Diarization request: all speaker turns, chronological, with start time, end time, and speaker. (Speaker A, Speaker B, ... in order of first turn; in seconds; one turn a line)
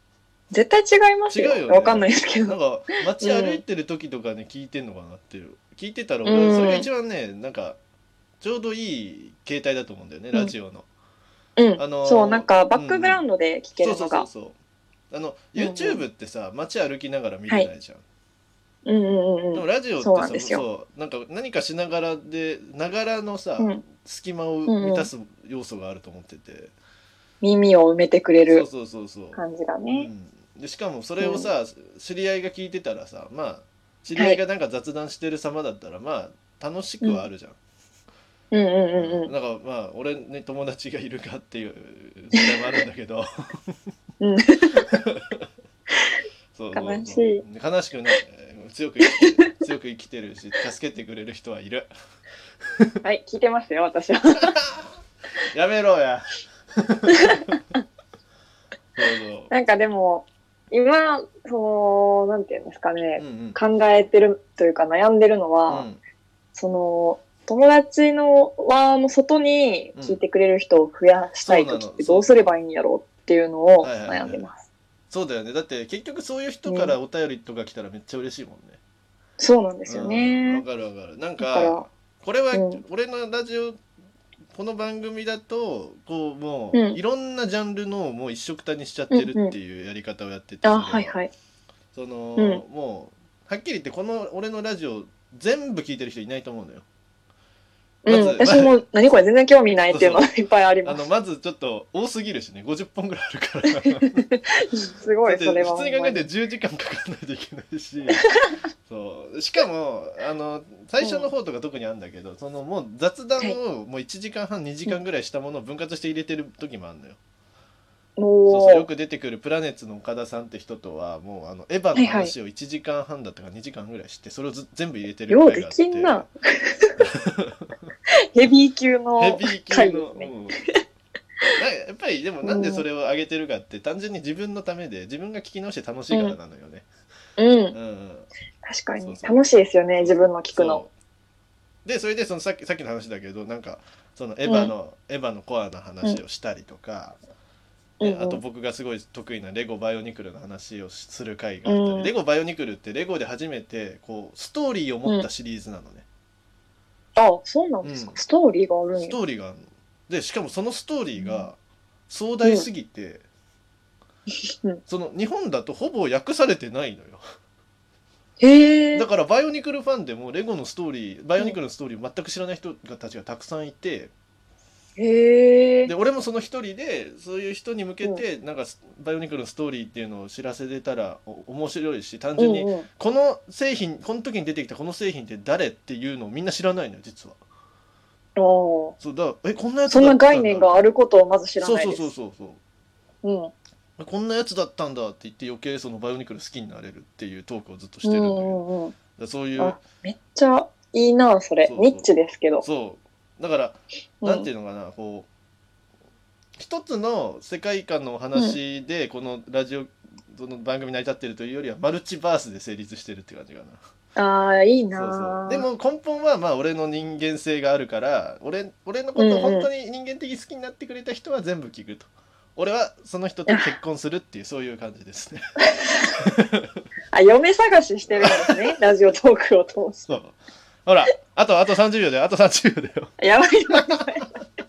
Speaker A: 0.5-2.6
Speaker B: 1.3-7.8
Speaker A: 3.2-3.6
Speaker A: 6.2-6.9
Speaker B: 8.4-10.9
Speaker A: 11.6-14.3
Speaker B: 11.8-13.2
Speaker B: 13.8-14.6
Speaker B: 15.1-18.0
Speaker A: 15.6-16.0
Speaker A: 18.9-20.6
Speaker B: 19.5-26.7
Speaker A: 24.7-25.1
Speaker A: 27.4-28.6
Speaker B: 28.5-29.4
Speaker A: 29.4-30.1
Speaker B: 29.9-37.6
Speaker A: 31.2-31.5
Speaker A: 34.1-34.4
Speaker A: 38.5-39.3
Speaker B: 39.0-43.2
Speaker A: 44.2-44.8
Speaker B: 44.9-45.4
Speaker B: 46.5-51.9
Speaker A: 46.7-47.4
Speaker A: 49.1-49.6
Speaker A: 53.0-54.6
Speaker B: 54.6-54.9
Speaker B: 55.5-57.6
Speaker B: 59.0-59.5
Speaker A: 59.5-65.9
Speaker B: 63.2-63.6
Speaker B: 65.7-66.0
Speaker A: 66.5-74.7
Speaker B: 71.4-72.5
Speaker B: 73.8-74.5
Speaker B: 75.1-78.8
Speaker A: 76.7-77.0
Speaker A: 79.4-80.6
Speaker B: 79.9-83.8
Speaker A: 81.4-81.9
Speaker A: 82.5-82.8
Speaker B: 84.5-91.1
Speaker A: 86.7-87.0
Speaker A: 89.1-89.5
Speaker A: 90.6-91.3
Speaker B: 91.9-96.8
Speaker A: 92.4-92.6
Speaker A: 98.0-101.0
Speaker B: 98.1-98.8
Speaker B: 99.9-100.3
Speaker B: 100.8-104.2
Speaker A: 103.8-106.2
Speaker B: 105.2-108.2
Speaker B: 108.9-117.2
Speaker A: 111.0-111.3
Speaker A: 118.2-118.9
Speaker B: 118.5-126.2
Speaker A: 122.0-122.3
Speaker A: 125.3-127.0
Speaker B: 127.0-127.7
Speaker A: 128.3-130.4
Speaker B: 129.2-130.6
Speaker B: 131.6-136.9
Speaker A: 132.4-132.8
Speaker A: 136.1-136.4
Speaker A: 137.4-137.8
Speaker B: 137.7-138.3
Speaker A: 138.6-140.8
Speaker B: 139.0-139.4
Speaker B: 140.0-140.9
Speaker B: 141.8-147.2
Speaker A: 144.4-144.7
Speaker A: 148.0-148.4
Speaker B: 148.0-156.1
Speaker A: 151.6-152.1
Speaker A: 157.2-159.2
Speaker B: 157.8-158.2
Speaker B: 158.9-161.6
Speaker A: 161.2-161.5
Speaker B: 162.1-163.2
Speaker A: 162.4-162.7
Speaker B: 164.9-167.2
Speaker A: 168.4-169.1
Speaker B: 168.9-174.1
Speaker A: 175.0-175.9
Speaker B: 175.9-187.4
Speaker A: 182.4-182.9
Speaker A: 188.4-188.9
Speaker B: 189.0-190.8
Speaker A: 189.9-192.1
Speaker B: 191.6-192.6
Speaker A: 193.2-193.5
Speaker B: 194.0-198.6
Speaker A: 198.0-198.9
Speaker B: 199.2-199.8
Speaker A: 199.6-202.6
Speaker B: 201.6-202.1
Speaker B: 202.6-205.3
Speaker A: 204.2-204.5
Speaker B: 206.6-213.8
Speaker A: 214.2-215.7
Speaker B: 214.9-225.4
Speaker A: 219.2-219.7
Speaker B: 226.2-226.7
Speaker A: 227.1-230.0
Speaker B: 228.1-228.6
Speaker B: 230.0-233.1
Speaker A: 233.2-234.3